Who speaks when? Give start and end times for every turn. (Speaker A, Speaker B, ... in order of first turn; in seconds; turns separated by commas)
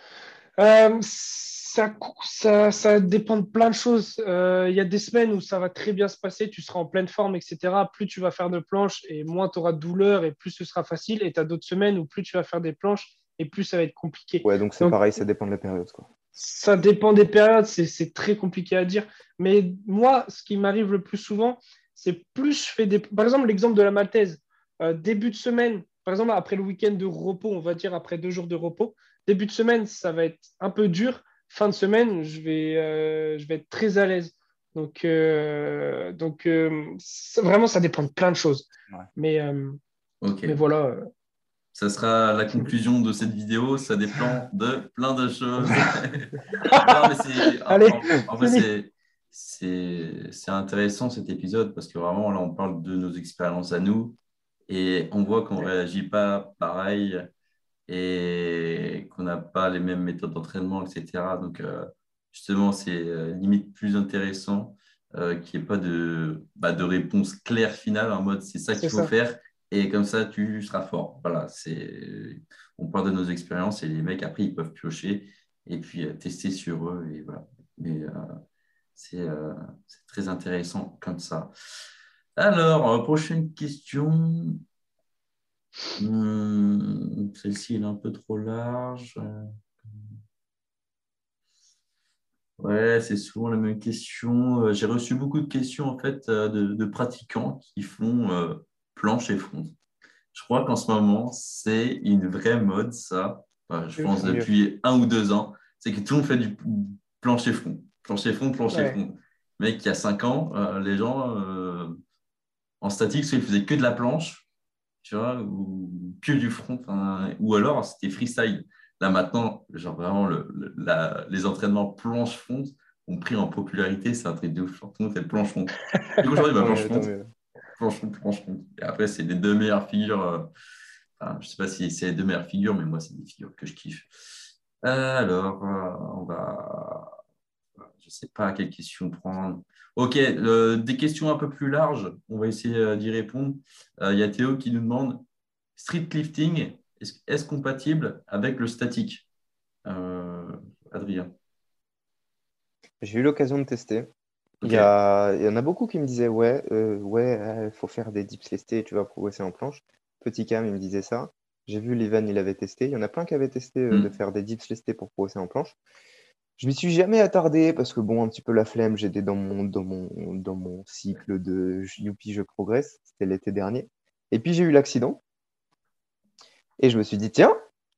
Speaker A: 0.6-15.0, Speaker B: 14.4-16.1, Speaker A: 16.4-39.8, Speaker C: 40.2-40.6, Speaker A: 40.5-41.1, Speaker C: 41.8-57.3, Speaker A: 46.7-47.0, Speaker A: 47.7-48.7, Speaker C: 57.9-78.3, Speaker A: 68.8-69.1, Speaker C: 79.0-81.5, Speaker C: 82.4-84.6, Speaker C: 86.0-90.2, Speaker C: 92.6-99.8, Speaker C: 100.3-111.9, Speaker B: 104.1-104.5, Speaker A: 108.7-109.0, Speaker C: 112.8-114.5, Speaker C: 115.0-127.1, Speaker B: 126.6-127.3, Speaker C: 127.8-130.5, Speaker C: 131.2-134.1, Speaker C: 134.8-137.2, Speaker C: 138.0-145.2, Speaker C: 145.8-149.3, Speaker C: 149.8-151.3, Speaker B: 153.0-154.1, Speaker C: 154.6-154.9, Speaker B: 154.6-165.8, Speaker B: 166.6-175.2, Speaker B: 176.8-177.5